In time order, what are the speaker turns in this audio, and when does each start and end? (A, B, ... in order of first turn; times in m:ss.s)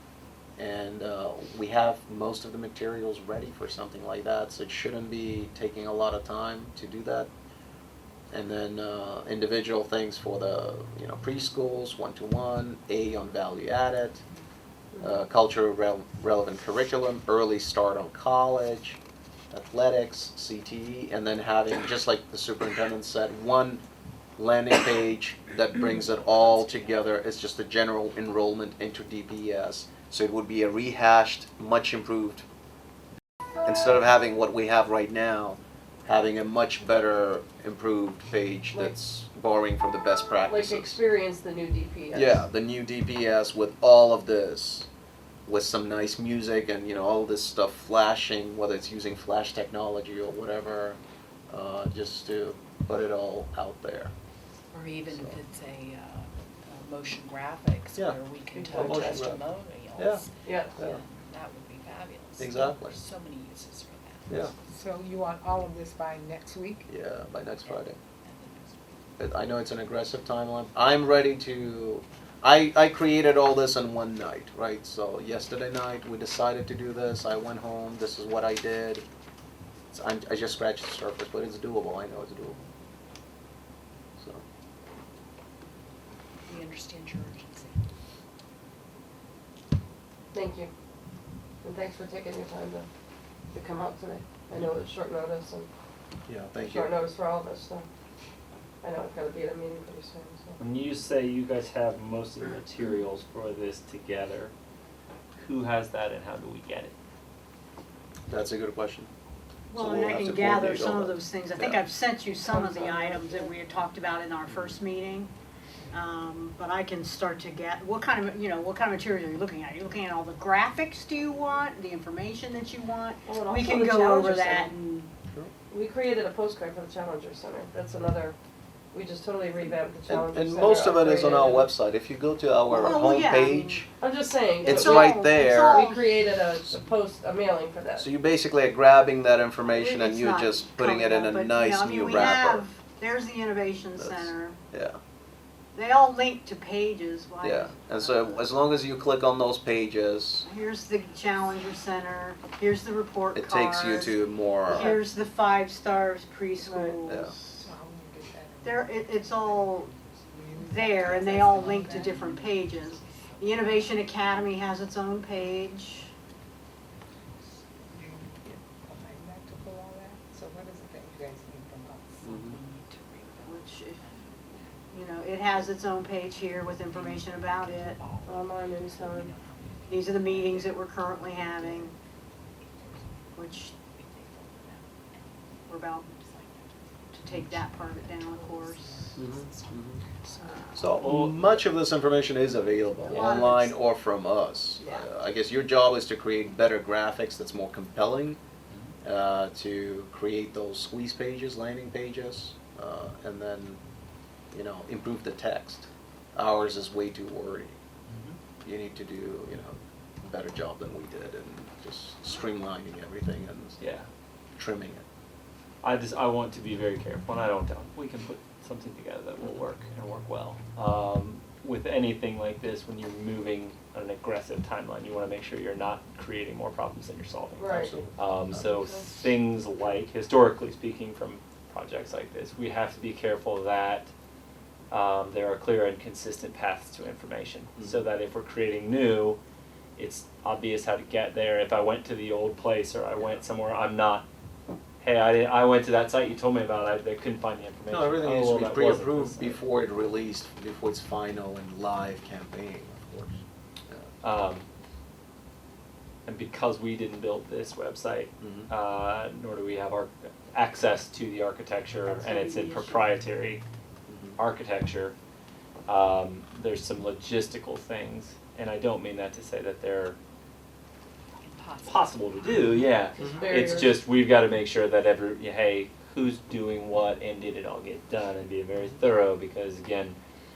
0:00.6-0:07.3 A
0:08.3-0:14.2 A
0:15.0-0:19.0 A
0:19.5-0:23.8 A
0:24.4-0:32.4 A
0:26.2-0:27.1 B
0:33.6-0:41.0 A
0:40.4-0:42.4 C
0:42.1-0:44.9 A
0:45.4-0:51.0 A
0:51.5-0:54.1 A
0:54.7-1:04.5 B
0:55.1-0:55.4 A
0:58.5-0:59.3 C
0:58.7-1:00.2 A
1:00.4-1:00.8 C
1:02.4-1:03.0 A
1:04.7-1:06.8 D
1:06.9-1:08.0 A
1:07.6-1:09.0 B
1:09.2-1:19.0 A
1:19.9-1:22.6 A
1:24.2-1:24.4 A
1:26.5-1:27.8 B
1:30.3-1:30.7 C
1:31.6-1:32.9 C
1:33.5-1:35.7 C
1:36.2-1:37.0 A
1:36.6-1:37.8 C
1:38.8-1:40.6 C
1:40.6-1:44.5 E
1:45.4-1:46.9 E
1:48.3-1:49.1 A
1:49.7-1:55.3 F
1:49.8-1:51.8 A
1:55.9-2:04.7 F
2:03.2-2:05.1 C
2:05.7-2:08.4 C
2:08.9-2:11.7 C
2:09.6-2:13.9 A
2:12.7-2:13.9 F
2:14.0-2:18.1 C
2:14.6-2:16.2 F
2:14.6-2:15.9 A
2:18.0-2:22.6 A
2:19.6-2:24.6 F
2:24.0-2:25.0 A
2:25.7-2:28.5 F
2:27.4-2:30.4 A
2:30.4-2:37.3 F
2:33.3-2:35.0 A
2:36.6-2:37.0 C
2:37.1-2:37.3 A
2:37.6-2:42.0 D
2:38.6-2:39.9 F
2:40.6-2:46.1 F
2:41.2-2:44.8 B
2:47.9-2:52.1 D
2:52.2-2:54.9 B
2:52.2-2:52.6 A
2:53.4-2:54.1 F
2:54.9-2:58.0 F
2:55.4-2:56.0 B
2:56.6-3:02.0 B
2:58.2-2:59.3 C
2:59.9-3:01.9 F
3:02.6-3:10.8 B
3:03.3-3:03.7 F
3:05.7-3:06.1 F
3:07.1-3:08.8 F
3:09.2-3:10.0 A
3:10.4-3:10.8 F
3:10.7-3:18.4 A
3:11.0-3:11.6 E
3:13.0-3:13.4 B
3:13.1-3:13.5 E
3:13.1-3:13.7 F
3:14.8-3:15.1 B
3:19.0-3:23.8 A
3:24.5-3:27.8 A
3:28.1-3:28.4 E
3:28.6-3:33.8 A
3:33.8-3:34.1 E
3:34.6-3:35.0 A
3:35.8-3:54.1 E
3:47.6-3:47.9 C
3:47.7-3:48.8 A
3:54.9-3:59.4 E
3:57.8-3:58.0 A
4:00.0-4:04.2 E
4:03.2-4:03.4 A
4:05.0-4:09.6 E
4:07.9-4:14.0 A
4:14.2-4:14.6 E
4:16.2-4:23.6 E
4:18.4-4:18.7 A
4:22.2-4:23.0 F
4:24.1-4:24.4 A
4:24.4-4:25.1 E
4:25.9-4:30.2 E
4:31.4-4:33.6 B
4:31.8-4:40.2 E
4:33.1-4:34.0 C
4:33.2-4:33.4 A